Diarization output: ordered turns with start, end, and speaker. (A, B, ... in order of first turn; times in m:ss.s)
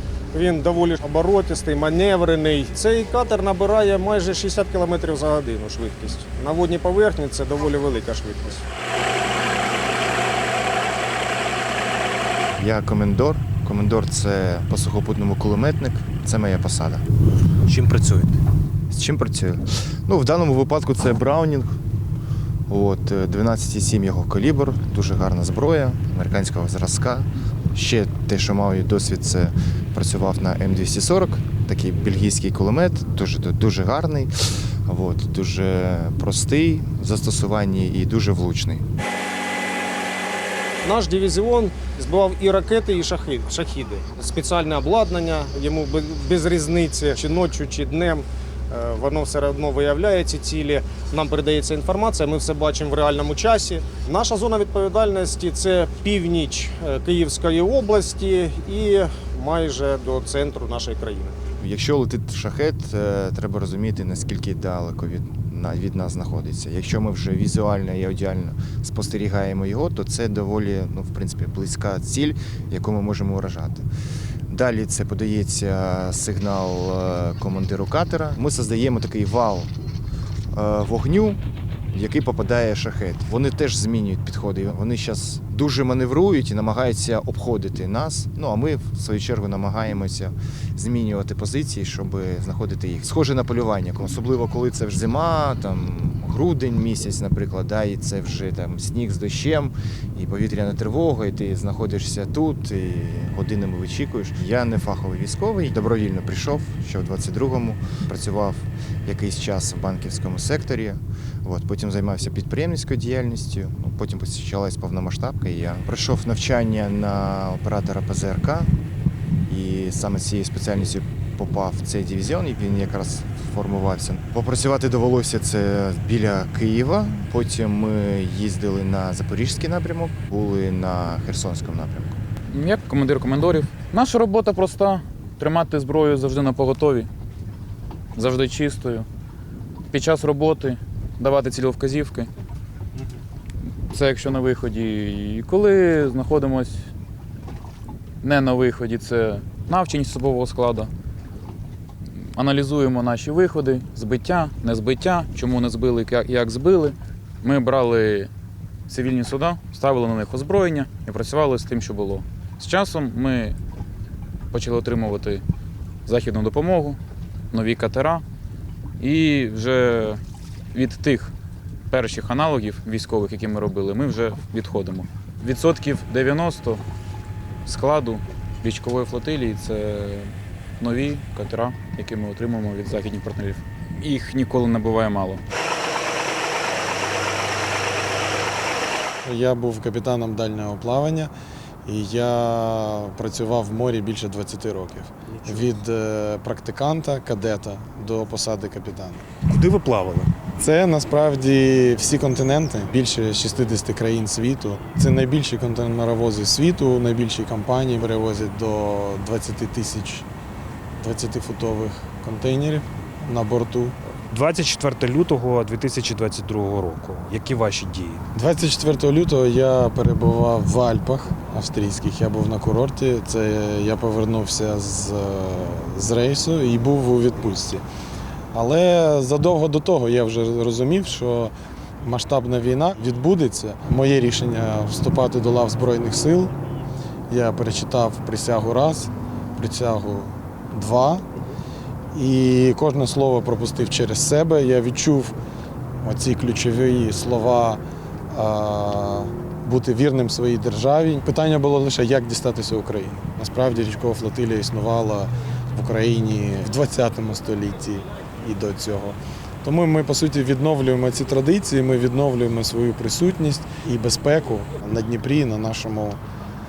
0:00.3-0:08.6 A
0:12.6-0:17.0 B
0:17.6-0:18.4 B
0:18.9-0:21.7 B
0:22.7-0:38.8 B
0:40.8-1:01.4 A
1:01.6-1:13.9 B
1:14.5-1:19.7 B
1:20.5-1:21.4 B
1:21.9-1:58.7 B
1:59.5-2:12.2 B
2:12.5-2:17.1 C
2:18.1-2:19.1 C
2:19.9-2:22.3 C
2:23.9-2:26.8 C
2:28.2-2:30.9 C
2:32.2-2:38.3 C
2:38.9-2:43.6 C
2:44.5-2:45.4 C
2:46.0-2:47.0 C
2:47.5-2:48.2 C
2:49.0-2:50.2 C
2:50.7-2:51.3 C
2:51.9-2:56.8 C
2:57.6-3:05.4 C
3:09.2-3:11.3 D
3:11.8-3:19.2 D
3:19.5-3:20.3 E
3:20.6-3:30.2 D
3:31.0-3:33.9 D
3:34.3-3:38.2 E
3:38.3-3:47.8 D
3:48.5-3:56.5 D
3:57.3-4:01.2 D
4:02.1-4:05.4 D
4:06.0-4:26.2 D